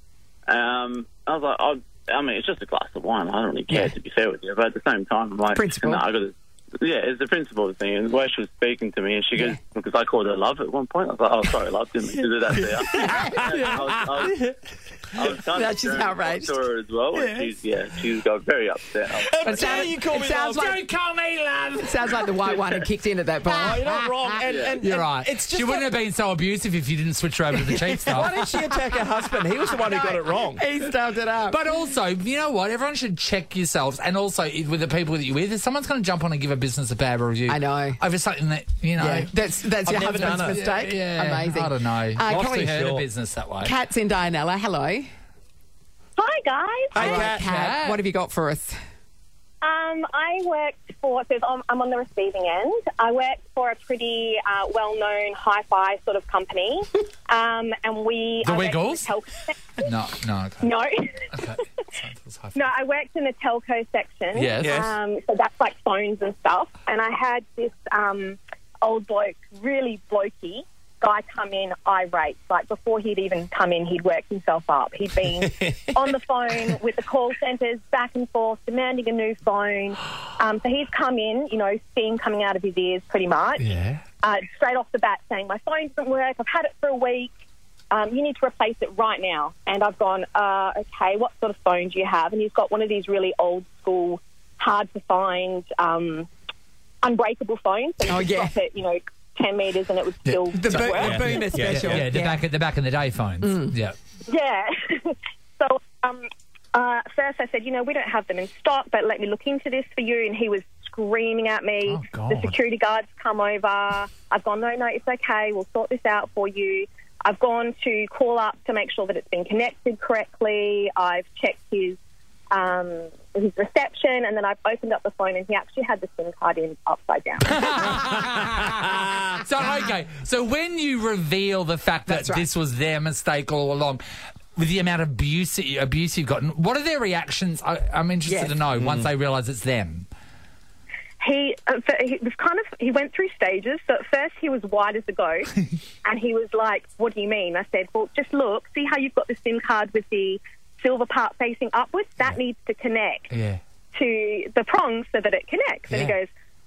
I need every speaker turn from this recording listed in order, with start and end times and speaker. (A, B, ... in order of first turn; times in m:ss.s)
0:00.5-0:14.4 A
0:05.5-0:06.0 B
0:12.9-0:13.7 B
0:13.1-0:13.5 C
0:15.1-0:19.8 A
0:15.5-0:16.6 B
0:19.3-0:20.7 D
0:19.4-0:20.8 B
0:20.6-0:22.8 C
0:21.8-0:23.8 B
0:23.5-0:28.3 C
0:23.6-0:25.9 D
0:27.5-0:28.9 B
0:28.1-0:30.6 D
0:29.6-0:31.6 B
0:31.5-0:39.3 C
0:37.5-0:38.0 B
0:39.0-0:42.7 B
0:39.8-0:40.7 D
0:40.3-0:43.7 C
0:42.3-0:43.0 D
0:43.6-0:45.1 B
0:46.2-0:47.1 E
0:46.9-0:47.4 D
0:47.0-0:48.8 B
0:47.0-0:48.0 C
0:49.6-0:59.8 E
0:58.4-0:59.1 C
0:59.8-1:00.7 C
1:00.6-1:01.3 E
1:01.3-1:02.7 C
1:02.5-1:23.7 E
1:04.3-1:04.8 C
1:04.6-1:04.9 D
1:23.6-1:24.0 C
1:24.2-1:27.3 E
1:27.9-1:36.3 E
1:37.0-1:41.5 E
1:38.0-1:38.6 B
1:40.2-1:44.0 C
1:40.5-1:42.4 B
1:40.8-1:42.1 D
1:43.4-1:43.8 B
1:44.2-2:02.0 E
1:51.8-1:52.6 C
2:02.5-2:07.5 E
2:07.5-2:14.0 C
2:12.1-2:12.5 B
2:14.6-2:20.1 C
2:18.2-2:18.6 B
2:18.8-2:19.0 D
2:21.2-2:25.5 E
2:26.0-2:33.3 E
2:33.3-2:33.6 C
2:33.9-2:36.3 E
2:35.9-2:36.2 C